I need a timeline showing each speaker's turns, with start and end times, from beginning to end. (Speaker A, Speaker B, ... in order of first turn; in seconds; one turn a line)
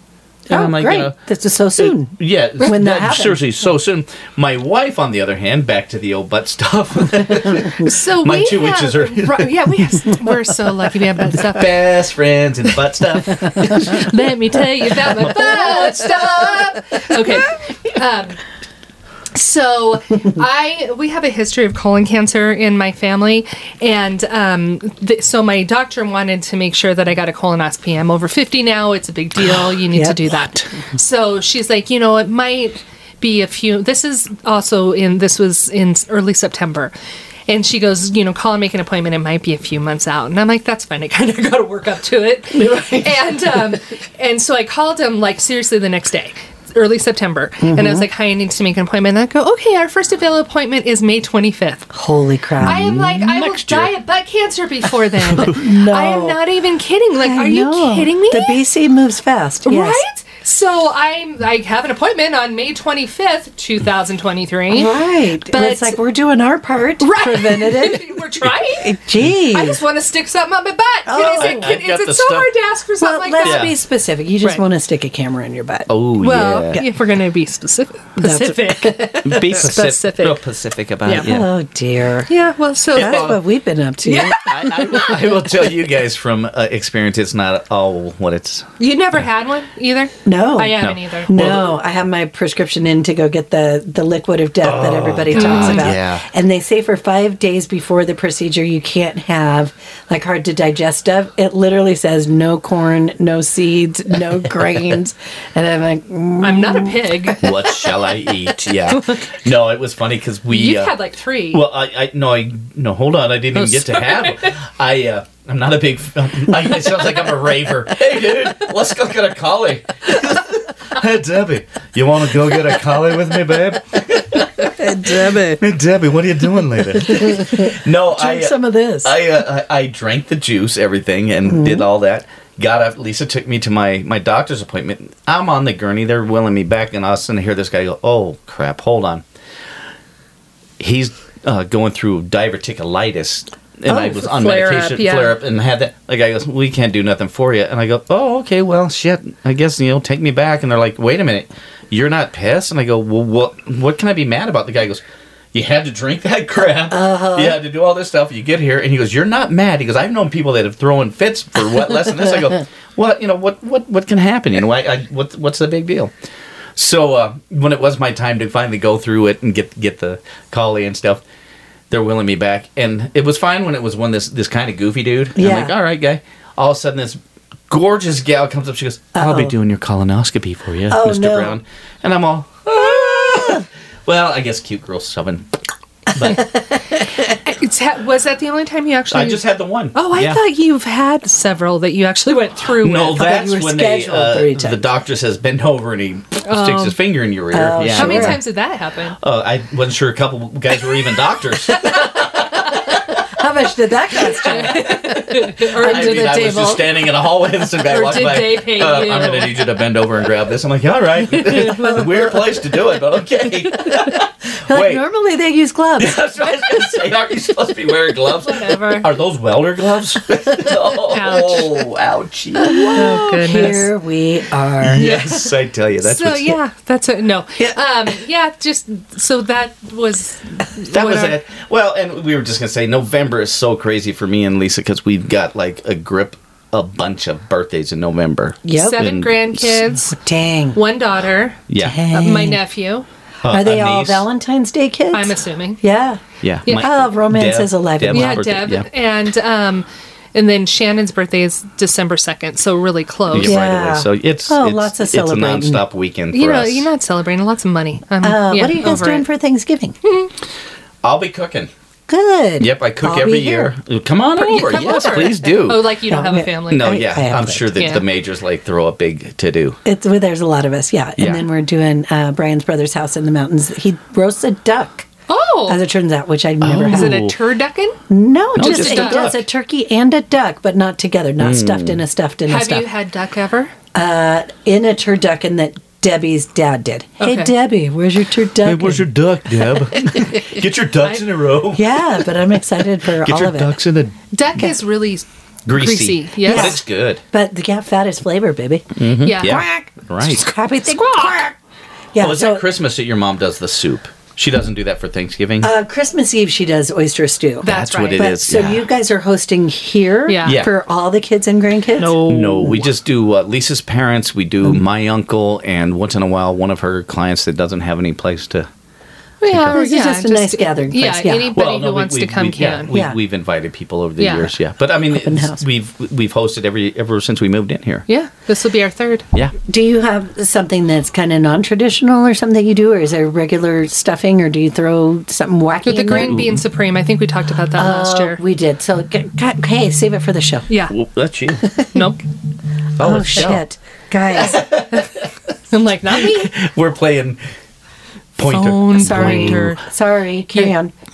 Speaker A: 0.5-1.2
Speaker B: 0.5-3.5
Speaker A: 1.8-9.7
Speaker C: 7.8-11.8
Speaker A: 11.5-14.1
Speaker C: 13.6-18.4
Speaker A: 15.2-16.1
Speaker C: 19.4-36.9
Speaker B: 29.9-30.2
Speaker C: 37.5-51.9
Speaker B: 42.5-43.7
Speaker B: 47.6-48.1
Speaker B: 51.9-53.0
Speaker A: 52.6-53.9
Speaker C: 52.6-58.6
Speaker B: 55.3-56.4
Speaker A: 55.4-55.6
Speaker B: 57.2-60.0
Speaker C: 59.7-64.9
Speaker B: 64.7-68.2
Speaker C: 65.5-66.0
Speaker C: 67.0-69.0
Speaker B: 68.8-69.8
Speaker C: 69.5-73.7
Speaker B: 71.1-71.8
Speaker A: 71.2-72.5
Speaker B: 73.0-75.9
Speaker A: 73.4-73.7
Speaker A: 75.9-76.8
Speaker C: 76.2-80.4
Speaker B: 78.2-79.6
Speaker A: 79.2-81.5
Speaker B: 81.2-82.3
Speaker C: 82.3-83.3
Speaker A: 83.0-83.4
Speaker B: 83.0-85.0
Speaker C: 84.0-85.2
Speaker A: 84.4-88.7
Speaker C: 88.8-91.3
Speaker B: 90.2-107.3
Speaker A: 90.8-91.7
Speaker A: 94.6-96.2
Speaker C: 95.3-95.9
Speaker C: 106.4-107.8
Speaker A: 107.4-139.2
Speaker C: 110.5-111.6
Speaker C: 113.5-114.6
Speaker B: 124.7-125.6
Speaker B: 127.0-129.1
Speaker B: 131.5-131.9
Speaker A: 140.8-155.0
Speaker C: 143.9-145.4
Speaker A: 155.5-166.1
Speaker B: 156.9-157.6
Speaker A: 166.8-171.2
Speaker A: 171.9-177.2
Speaker B: 175.4-175.7
Speaker A: 177.7-185.5
Speaker B: 179.2-179.5
Speaker B: 180.9-181.6
Speaker A: 186.1-186.6
Speaker B: 186.3-187.0
Speaker C: 187.4-193.2
Speaker A: 189.1-190.4
Speaker A: 192.8-198.4
Speaker B: 193.1-194.9
Speaker C: 196.4-197.0
Speaker B: 197.5-198.4
Speaker C: 197.9-199.2
Speaker A: 199.2-203.2
Speaker B: 201.8-206.9
Speaker C: 204.4-206.5
Speaker A: 204.8-215.1
Speaker C: 207.9-209.6
Speaker C: 211.4-212.1
Speaker B: 214.7-216.2
Speaker A: 216.0-223.2
Speaker C: 218.4-219.1
Speaker C: 221.1-221.8
Speaker C: 222.6-223.9
Speaker B: 222.7-225.1
Speaker A: 224.8-226.6
Speaker C: 225.0-231.4
Speaker A: 230.9-239.9
Speaker B: 238.6-239.1
Speaker C: 238.8-240.2
Speaker B: 240.1-240.8
Speaker C: 240.7-243.1
Speaker A: 241.7-242.0
Speaker B: 241.8-242.6
Speaker A: 243.4-244.2
Speaker B: 243.5-246.2
Speaker C: 245.1-245.8
Speaker A: 246.4-248.9
Speaker B: 246.8-248.5
Speaker C: 248.1-253.6
Speaker A: 253.3-256.9
Speaker B: 253.4-255.8
Speaker C: 256.3-259.3
Speaker B: 258.2-260.0
Speaker C: 260.0-260.3
Speaker A: 261.0-261.7
Speaker B: 262.1-263.7
Speaker A: 262.6-265.9
Speaker C: 264.4-267.0
Speaker B: 266.1-267.8
Speaker A: 266.7-269.8
Speaker C: 267.8-268.0
Speaker B: 269.9-275.1
Speaker A: 271.2-271.4
Speaker C: 275.3-275.8
Speaker B: 275.7-277.3
Speaker A: 276.6-277.4
Speaker C: 276.8-278.0
Speaker B: 278.1-282.9
Speaker A: 278.6-279.4
Speaker C: 278.6-279.2
Speaker A: 281.4-282.0
Speaker C: 282.5-283.7
Speaker B: 283.9-289.1
Speaker C: 287.2-287.5
Speaker A: 288.6-292.0
Speaker B: 291.7-293.8
Speaker A: 293.2-294.2
Speaker C: 294.3-296.8
Speaker A: 295.7-297.2
Speaker B: 296.5-301.6
Speaker A: 299.0-300.5
Speaker C: 299.2-299.6
Speaker C: 300.9-301.4
Speaker B: 302.1-302.7
Speaker A: 302.2-305.7
Speaker B: 305.6-312.2
Speaker C: 307.6-308.3
Speaker A: 307.6-308.9
Speaker C: 310.3-310.6
Speaker A: 310.5-310.7
Speaker C: 312.0-312.8
Speaker A: 312.2-318.7
Speaker C: 319.4-322.9
Speaker A: 319.5-319.8
Speaker B: 319.6-321.5
Speaker A: 321.6-328.1
Speaker B: 322.9-323.2
Speaker C: 324.2-324.5
Speaker B: 325.1-325.6
Speaker C: 328.1-329.2
Speaker B: 329.7-336.4
Speaker C: 335.9-338.4
Speaker A: 336.1-336.6
Speaker B: 337.8-340.7
Speaker C: 340.7-340.9
Speaker A: 340.9-341.8
Speaker C: 341.9-342.2
Speaker A: 343.0-343.6
Speaker B: 343.0-344.6
Speaker A: 344.4-345.2
Speaker C: 345.7-346.5
Speaker A: 346.2-347.4
Speaker A: 348.4-349.7
Speaker C: 348.4-349.8
Speaker B: 349.0-350.9